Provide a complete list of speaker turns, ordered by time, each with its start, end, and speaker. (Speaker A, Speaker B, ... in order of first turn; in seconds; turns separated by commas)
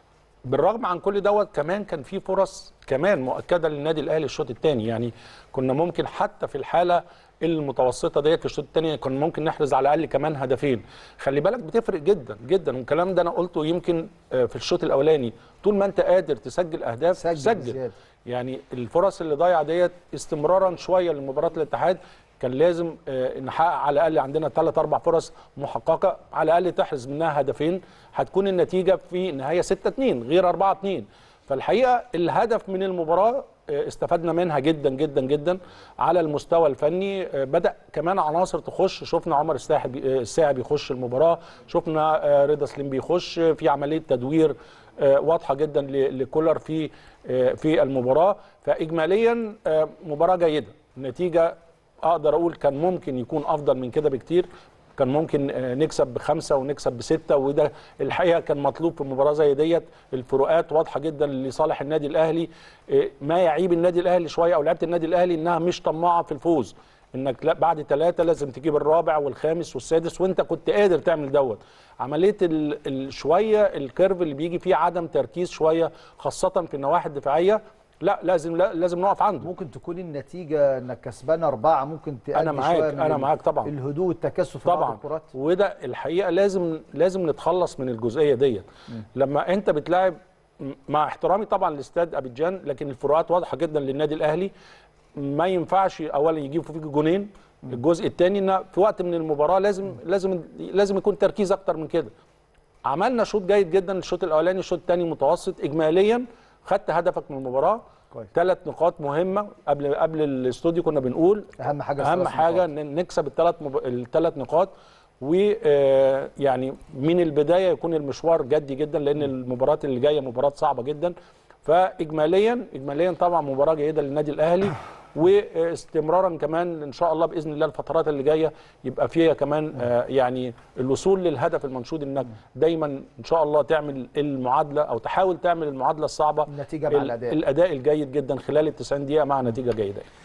Speaker A: 0.5-79.5, Speaker B: 17.2-17.9, Speaker B: 79.4-85.3, Speaker A: 82.3-83.7, Speaker A: 84.7-94.5, Speaker A: 95.2-102.1, Speaker A: 102.9-121.1, Speaker B: 111.6-112.7, Speaker A: 121.7-140.1, Speaker B: 136.5-137.4